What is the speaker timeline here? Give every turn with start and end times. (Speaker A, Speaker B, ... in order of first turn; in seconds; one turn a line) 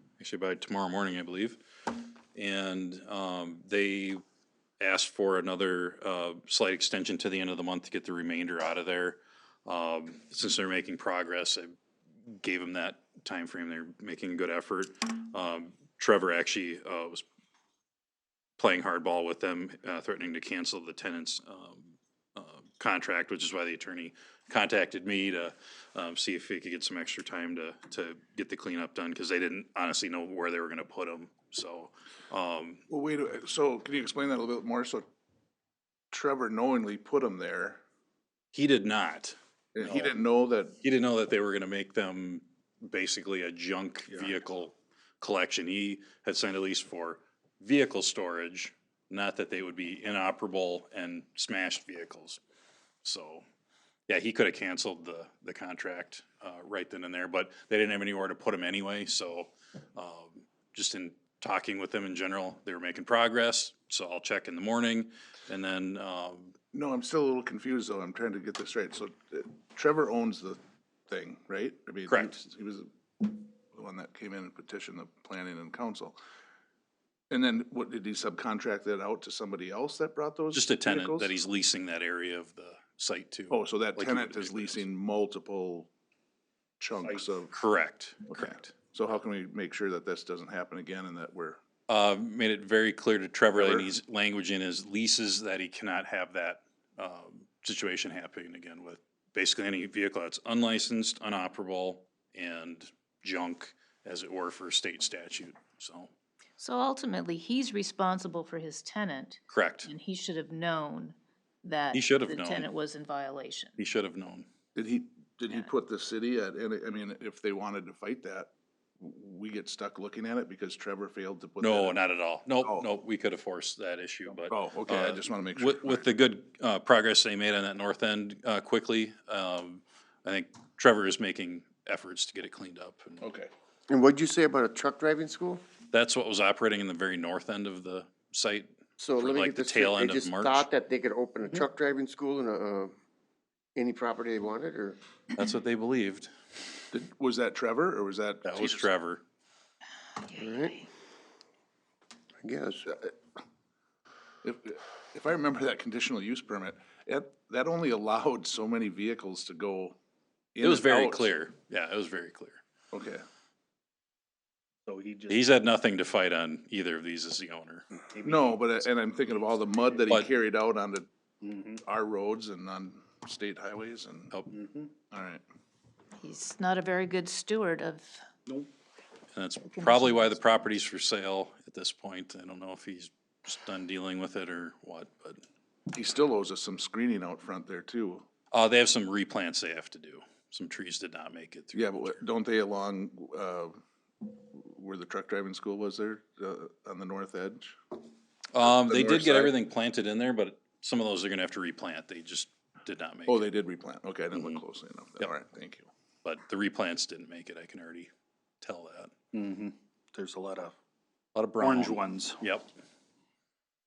Speaker A: 0.2-1.6
Speaker A: 2.3-4.2
Speaker A: 4.8-11.8
Speaker A: 12.3-17.2
Speaker A: 18.6-32.8
Speaker B: 32.9-35.0
Speaker B: 36.1-37.8
Speaker A: 38.5-40.1
Speaker B: 39.7-40.7
Speaker A: 40.8-52.4
Speaker A: 53.0-53.4
Speaker A: 54.1-66.5
Speaker B: 66.7-76.2
Speaker B: 77.3-81.3
Speaker A: 80.5-84.8
Speaker B: 83.5-85.9
Speaker B: 86.8-87.5
Speaker A: 87.5-88.7
Speaker B: 88.3-91.6
Speaker A: 91.9-106.1
Speaker B: 93.5-93.9
Speaker C: 106.6-113.8
Speaker A: 109.5-109.9
Speaker A: 111.9-112.7
Speaker A: 113.8-114.5
Speaker B: 114.7-122.0
Speaker A: 121.6-133.2
Speaker B: 122.6-122.9
Speaker B: 124.5-126.0
Speaker B: 133.2-133.5
Speaker D: 133.9-135.6
Speaker A: 135.9-140.7
Speaker D: 139.0-142.9
Speaker D: 143.8-145.0
Speaker A: 145.3-146.3
Speaker B: 146.9-148.9
Speaker A: 148.4-149.2
Speaker D: 150.3-150.8
Speaker D: 152.4-153.1
Speaker B: 154.4-159.9
Speaker B: 160.5-161.3
Speaker A: 160.6-162.6
Speaker B: 162.9-163.2
Speaker E: 164.9-165.4
Speaker A: 165.3-167.8
Speaker E: 168.1-168.9
Speaker B: 168.2-171.1
Speaker E: 169.4-170.0
Speaker E: 171.4-171.8
Speaker B: 171.8-174.3
Speaker E: 174.5-174.9
Speaker B: 175.1-175.4
Speaker C: 176.2-178.2
Speaker A: 179.3-185.4
Speaker C: 179.8-180.3
Speaker B: 185.9-188.2
Speaker A: 188.5-192.1
Speaker B: 191.7-197.7
Speaker A: 198.5-203.4
Speaker B: 198.6-199.5
Speaker B: 203.3-205.9
Speaker A: 204.3-204.6
Speaker A: 206.2-209.1
Speaker E: 209.3-210.7
Speaker A: 211.3-212.7
Speaker E: 211.6-212.4